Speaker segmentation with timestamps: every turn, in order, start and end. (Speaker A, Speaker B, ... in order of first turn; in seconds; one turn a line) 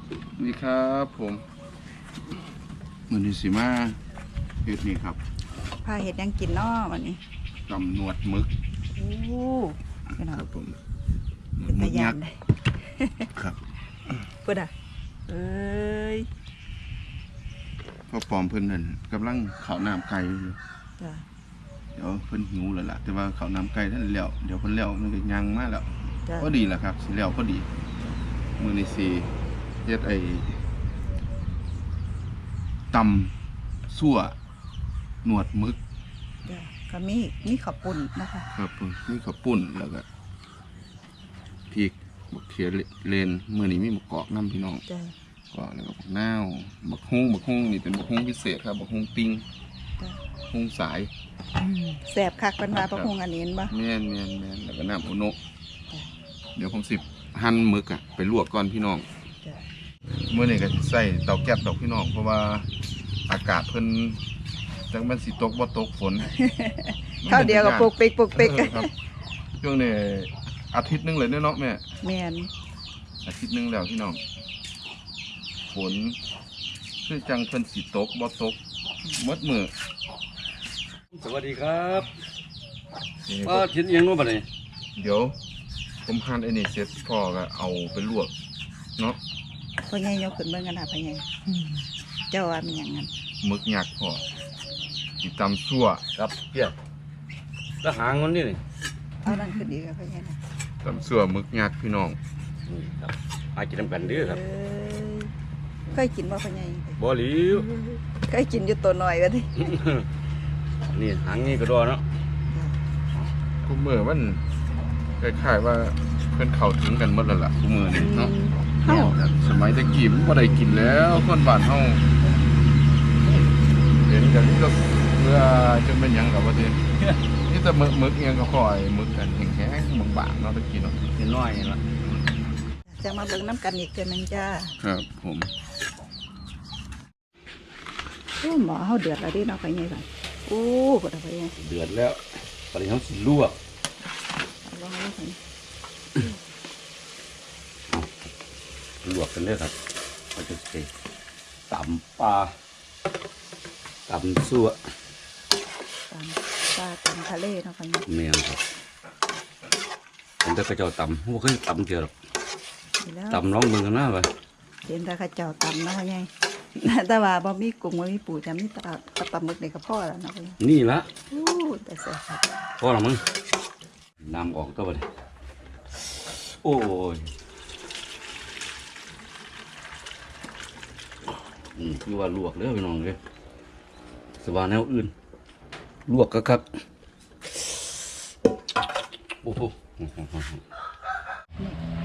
Speaker A: 0.4-1.4
Speaker A: 3.1-4.0
Speaker A: 4.6-5.2
Speaker B: 5.8-7.2
Speaker A: 7.7-8.5
Speaker B: 9.0-10.5
Speaker A: 10.4-10.8
Speaker A: 11.6-12.2
Speaker B: 11.7-13.3
Speaker A: 13.3-13.6
Speaker B: 14.4-14.7
Speaker B: 15.3-16.3
Speaker A: 18.1-20.6
Speaker B: 21.0-21.2
Speaker A: 21.9-27.7
Speaker A: 28.6-29.3
Speaker A: 29.8-30.6
Speaker A: 32.9-33.3
Speaker A: 33.9-34.4
Speaker A: 35.2-35.8
Speaker B: 36.5-38.5
Speaker A: 38.5-40.0
Speaker A: 41.7-44.8
Speaker B: 44.9-45.1
Speaker A: 45.5-49.5
Speaker A: 50.5-51.1
Speaker B: 51.6-53.7
Speaker A: 52.8-53.1
Speaker A: 53.7-55.4
Speaker A: 56.6-59.0
Speaker A: 60.2-62.7
Speaker A: 63.3-64.2
Speaker A: 64.9-66.3
Speaker B: 66.3-68.9
Speaker A: 67.2-68.9
Speaker A: 69.6-71.8
Speaker B: 72.0-72.5
Speaker A: 73.2-74.2
Speaker A: 75.7-76.2
Speaker A: 77.0-78.6
Speaker A: 79.1-79.7
Speaker C: 81.1-82.1
Speaker A: 83.2-83.7
Speaker C: 83.4-84.5
Speaker A: 85.0-85.4
Speaker A: 86.0-88.3
Speaker B: 89.9-91.2
Speaker B: 92.3-93.1
Speaker A: 93.4-94.2
Speaker A: 95.2-96.0
Speaker C: 96.2-96.7
Speaker C: 97.8-98.6
Speaker B: 99.2-100.4
Speaker A: 100.8-102.2
Speaker C: 102.7-104.4
Speaker B: 104.1-105.3
Speaker B: 105.9-107.0
Speaker C: 107.0-107.7
Speaker B: 107.8-109.7
Speaker C: 109.6-110.1
Speaker C: 110.8-112.0
Speaker B: 112.5-112.8
Speaker A: 113.6-114.4
Speaker A: 115.2-122.0
Speaker B: 117.9-119.2
Speaker A: 124.0-126.8
Speaker C: 126.9-127.2
Speaker A: 127.4-131.0
Speaker C: 131.1-131.8
Speaker B: 133.0-134.8
Speaker A: 134.8-135.5
Speaker B: 138.4-141.5
Speaker C: 141.6-142.2
Speaker C: 142.7-143.6
Speaker B: 144.6-145.4
Speaker C: 149.0-149.7
Speaker C: 150.3-150.9
Speaker C: 151.7-152.5
Speaker C: 154.1-154.8
Speaker B: 156.1-158.1
Speaker C: 158.1-158.6
Speaker C: 160.4-162.1
Speaker B: 163.0-163.4
Speaker C: 163.3-164.3
Speaker B: 164.8-170.6
Speaker C: 170.6-171.1
Speaker B: 171.3-172.4
Speaker C: 172.8-173.2
Speaker C: 174.2-175.1
Speaker C: 176.6-177.3
Speaker C: 181.8-183.2
Speaker C: 184.4-185.1
Speaker C: 186.1-186.7
Speaker C: 189.4-190.6